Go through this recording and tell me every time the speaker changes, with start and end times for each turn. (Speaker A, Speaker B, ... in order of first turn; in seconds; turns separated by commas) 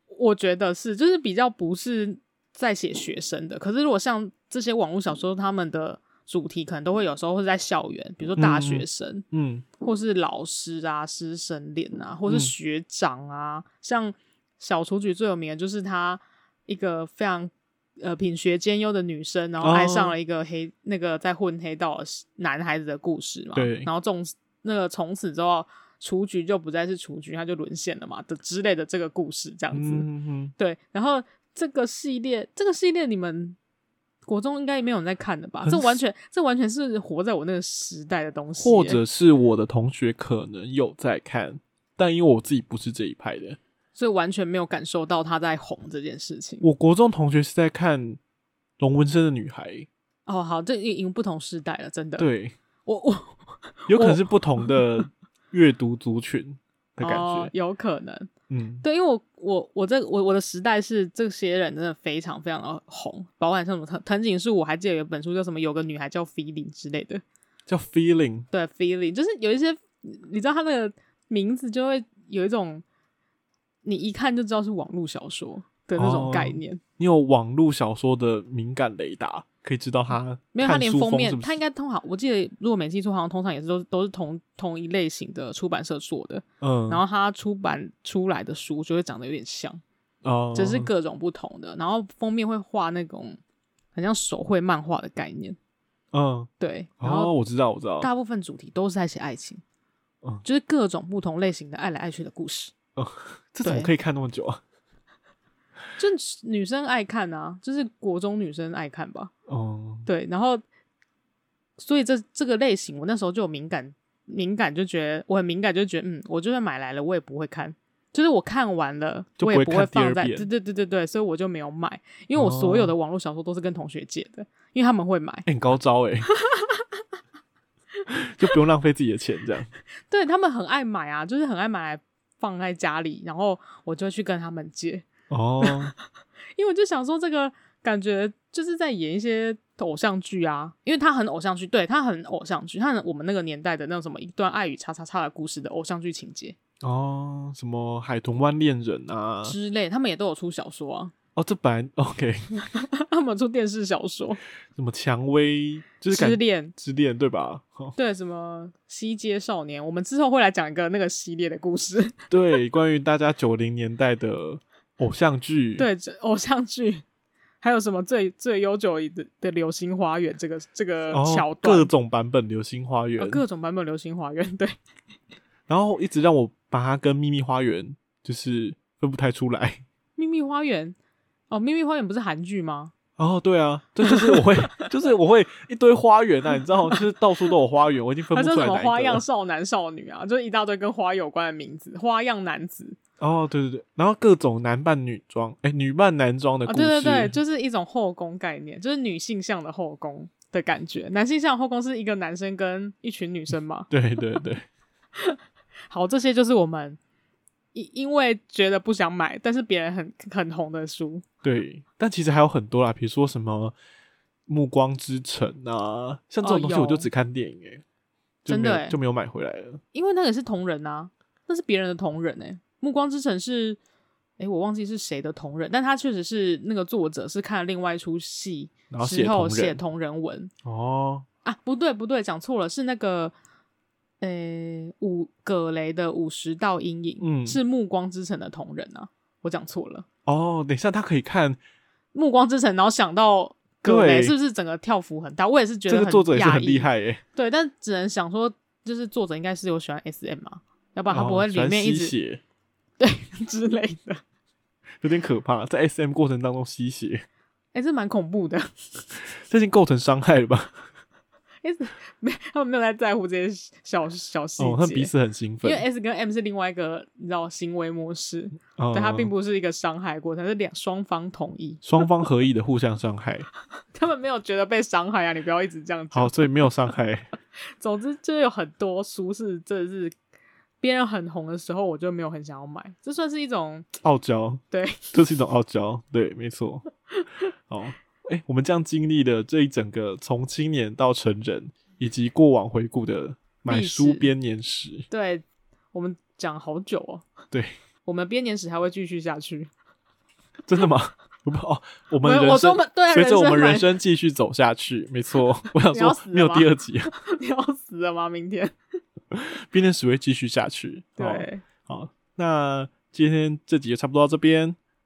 Speaker A: 0.1-9.2, Speaker B: 8.4-9.6, Speaker A: 9.8-30.1, Speaker B: 12.3-12.5, Speaker B: 19.6-20.1, Speaker B: 23.5-23.9, Speaker B: 29.7-30.5, Speaker A: 30.6-33.6, Speaker A: 34.3-39.0, Speaker B: 35.6-36.0, Speaker B: 38.6-43.6, Speaker A: 43.9-46.6, Speaker B: 46.6-48.2, Speaker B: 48.8-49.9, Speaker A: 50.3-52.3, Speaker B: 52.2-52.5, Speaker A: 52.9-54.8, Speaker B: 53.9-57.5, Speaker A: 57.0-58.3, Speaker B: 58.5-58.8, Speaker A: 58.8-67.2, Speaker B: 67.7-68.5, Speaker A: 68.5-72.8, Speaker A: 73.8-76.8, Speaker B: 76.0-81.6, Speaker A: 80.5-89.8, Speaker B: 86.6-87.0, Speaker B: 90.2-90.9, Speaker A: 90.5-93.4, Speaker A: 93.9-95.6, Speaker B: 96.1-96.5, Speaker A: 96.6-97.3, Speaker B: 97.0-98.1, Speaker A: 98.0-99.6, Speaker A: 100.4-102.7, Speaker B: 103.0-104.6, Speaker A: 103.6-103.9, Speaker A: 106.0-109.3, Speaker B: 109.5-110.1, Speaker A: 110.0-110.6, Speaker A: 111.8-125.5, Speaker B: 119.4-120.5, Speaker B: 122.3-122.9, Speaker B: 125.5-126.3, Speaker A: 126.4-126.8, Speaker B: 128.1-129.7, Speaker A: 130.1-135.1, Speaker B: 135.3-135.9, Speaker A: 136.6-146.6, Speaker B: 146.8-149.6, Speaker A: 149.4-151.1, Speaker B: 151.3-152.5, Speaker A: 152.7-154.4, Speaker B: 154.7-157.9, Speaker A: 156.1-156.7, Speaker A: 157.9-162.1, Speaker B: 162.3-165.8, Speaker A: 165.8-167.0, Speaker A: 167.6-171.9, Speaker B: 171.1-173.4, Speaker A: 173.2-174.7, Speaker B: 175.7-179.8, Speaker A: 180.2-180.9, Speaker A: 181.5-182.9, Speaker B: 183.2-189.2, Speaker A: 184.0-184.8, Speaker A: 188.3-192.9, Speaker B: 193.2-197.4, Speaker A: 196.7-203.9, Speaker B: 203.9-204.7, Speaker A: 205.9-207.0, Speaker A: 207.7-211.2, Speaker B: 211.4-213.7, Speaker B: 214.5-217.8, Speaker A: 216.4-217.1, Speaker B: 218.4-219.8, Speaker A: 218.5-218.9, Speaker A: 219.9-223.8, Speaker A: 224.4-230.5, Speaker B: 228.9-229.8, Speaker B: 230.6-231.2, Speaker A: 231.4-233.3, Speaker A: 234.2-240.1, Speaker B: 237.2-237.6, Speaker B: 240.2-241.6, Speaker A: 242.1-252.1, Speaker B: 243.8-244.3, Speaker B: 245.9-247.2, Speaker B: 251.1-252.4, Speaker A: 253.0-254.2, Speaker B: 255.0-257.2, Speaker A: 257.7-259.0, Speaker B: 259.4-260.7, Speaker A: 261.6-265.1, Speaker B: 264.6-265.8, Speaker A: 265.6-271.8, Speaker B: 268.8-269.3, Speaker B: 271.8-273.5, Speaker A: 273.9-276.7, Speaker B: 276.1-277.3, Speaker A: 277.8-280.1, Speaker A: 280.8-283.9, Speaker B: 284.0-286.9, Speaker A: 284.7-285.1, Speaker B: 287.7-295.1, Speaker A: 293.7-294.3, Speaker A: 295.1-297.3, Speaker A: 298.0-299.7, Speaker B: 300.7-307.1, Speaker A: 302.2-303.9, Speaker A: 305.9-308.7, Speaker B: 309.3-314.8, Speaker A: 311.2-311.6